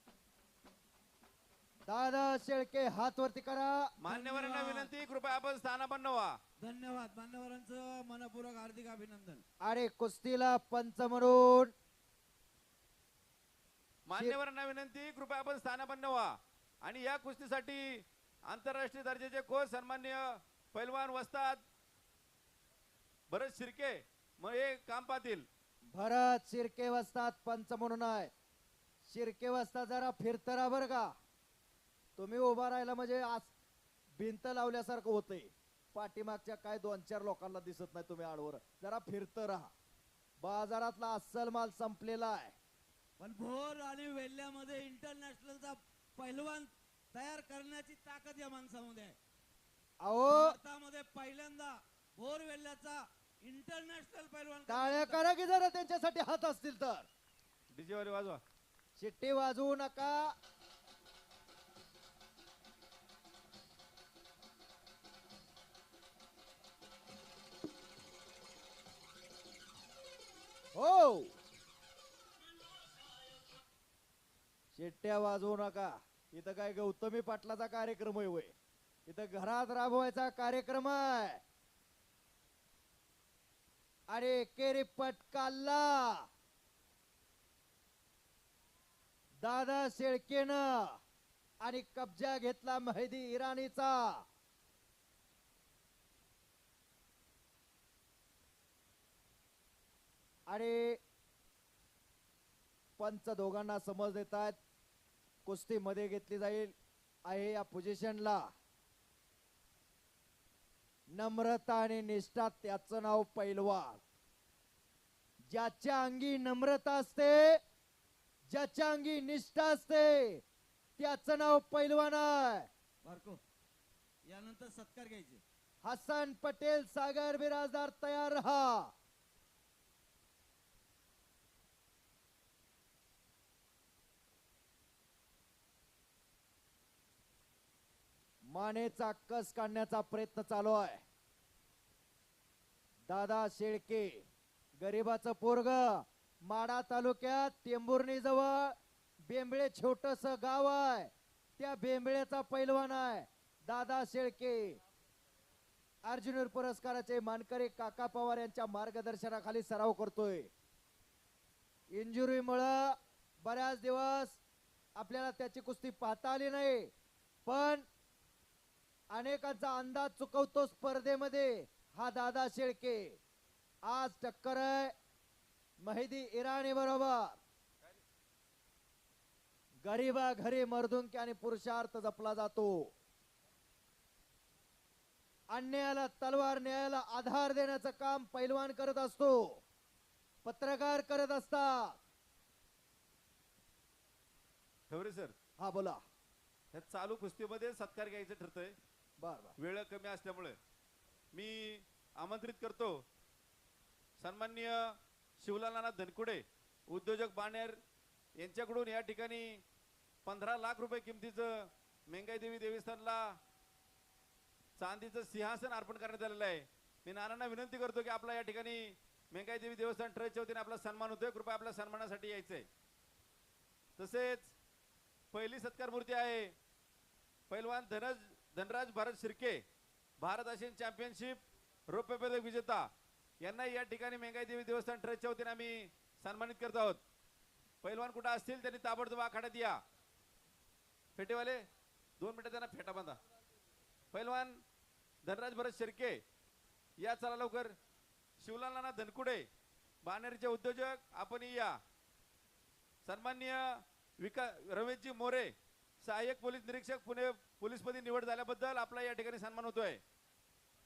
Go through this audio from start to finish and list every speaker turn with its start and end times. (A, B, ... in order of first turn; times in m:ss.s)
0:01.9-0:03.9 A
0:04.0-0:06.3 B
0:04.0-0:04.9 C
0:06.6-0:09.4 C
0:09.6-0:11.7 A
0:14.0-0:21.6 B
0:23.3-0:25.4 B
0:25.9-0:28.3 A
0:29.0-0:31.1 A
0:32.2-0:33.5 A
0:34.2-0:39.7 A
0:40.4-0:42.5 A
0:43.2-0:49.2 C
0:50.0-0:50.6 A
0:50.3-0:55.2 C
0:54.7-0:57.1 A
0:57.7-0:58.4 B
0:59.0-1:00.3 A
1:10.8-1:11.3 A
1:14.7-1:18.5 A
1:19.1-1:21.4 A
1:24.1-1:26.3 A
1:29.4-1:31.0 A
1:31.6-1:34.2 A
1:40.5-1:41.0 A
1:43.0-1:44.6 A
1:45.5-1:46.8 A
1:47.3-1:48.5 A
1:51.1-1:54.0 A
1:55.5-1:57.6 A
1:58.5-2:00.4 A
2:01.0-2:02.7 A
2:03.0-2:03.4 C
2:04.3-2:05.4 C
2:05.8-2:08.9 A
2:18.5-2:21.0 A
2:23.1-2:24.2 A
2:24.8-2:28.8 A
2:29.3-2:34.8 A
2:36.0-2:40.5 A
2:41.9-2:44.4 A
2:45.0-2:46.9 A
2:47.4-2:47.8 A
2:49.1-2:53.2 A
2:53.8-2:54.9 A
2:55.8-2:57.4 A
2:59.8-3:02.9 A
3:05.5-3:09.6 A
3:10.4-3:12.0 A
3:14.9-3:15.3 B
3:15.6-3:16.0 A
3:16.7-3:18.7 B
3:19.2-3:19.5 A
3:19.6-3:20.5 B
3:21.3-3:23.0 B
3:24.2-3:27.8 B
3:28.4-3:29.5 B
3:30.2-3:33.2 B
3:34.8-3:42.7 B
3:44.0-3:44.5 B
3:45.3-3:46.5 B
3:47.5-3:49.6 B
3:50.2-3:51.4 B
3:51.9-3:52.8 B
3:53.4-3:57.0 B
3:57.8-3:59.8 B
4:01.2-4:01.6 B
4:02.2-4:03.2 B
4:04.1-4:04.6 B
4:05.2-4:06.2 B
4:07.0-4:07.7 B
4:08.4-4:09.4 B
4:10.0-4:11.7 B
4:13.0-4:20.0 B